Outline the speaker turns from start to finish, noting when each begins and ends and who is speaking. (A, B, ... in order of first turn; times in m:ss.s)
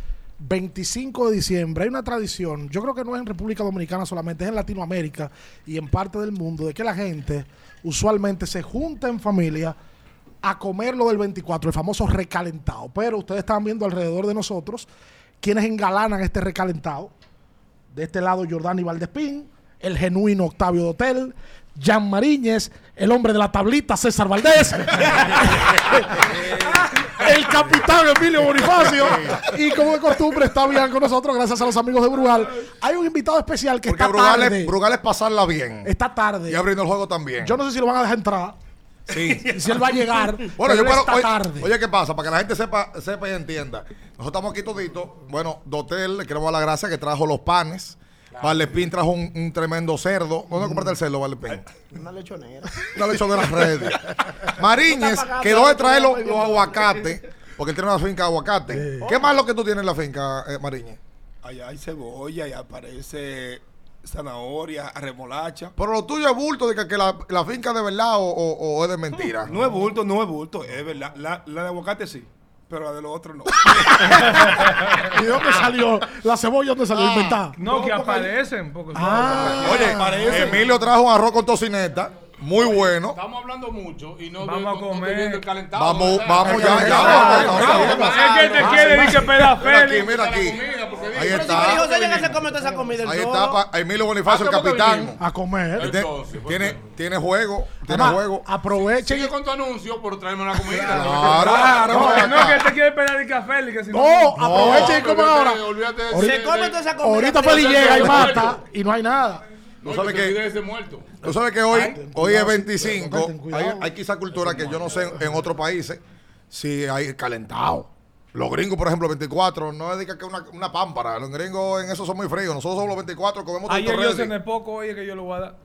0:00.4-0:09.8 A
0:10.4-0:14.9 A
0:15.4-0:17.1 A
0:17.9-0:34.8 A
0:28.8-0:29.4 B
0:33.8-0:35.9 B
0:35.8-0:36.6 A
0:36.5-0:37.6 B
0:37.4-0:38.6 A
0:39.1-0:39.7 B
0:39.1-0:41.7 A
0:40.6-0:51.7 B
0:48.4-0:48.7 C
0:50.5-0:50.9 A
0:51.9-0:53.0 D
0:52.9-1:01.0 B
0:54.9-0:57.1 D
0:58.7-0:59.1 A
0:59.0-0:59.3 D
1:01.4-1:05.7 E
1:05.8-1:09.5 B
1:09.4-1:14.6 E
1:14.1-1:17.6 A
1:16.9-1:17.4 B
1:17.6-1:20.0 F
1:17.6-1:18.3 E
1:18.9-1:20.6 A
1:19.5-1:20.6 E
1:19.6-1:23.2 B
1:23.1-1:32.4 C
1:24.4-1:25.4 F
1:25.7-1:30.6 B
1:26.5-1:29.2 D
1:26.5-1:28.1 A
1:26.7-1:27.9 E
1:26.9-1:30.2 F
1:31.1-1:31.9 B
1:31.2-1:33.6 D
1:33.0-1:35.2 B
1:34.2-1:35.2 C
1:35.2-1:35.9 A
1:35.8-1:36.8 C
1:35.8-1:38.5 B
1:37.8-1:39.3 A
1:38.9-1:42.3 C
1:40.8-1:42.7 B
1:41.5-1:44.6 F
1:41.6-1:42.4 A
1:43.9-1:46.4 A
1:44.4-1:45.0 B
1:44.6-1:46.8 C
1:46.1-1:48.5 D
1:47.0-1:49.4 A
1:47.4-1:48.6 C
1:49.8-1:51.1 C
1:49.8-1:50.4 B
1:51.2-2:04.3 B
1:51.7-1:53.9 A
1:54.4-1:54.9 C
2:03.7-2:05.6 F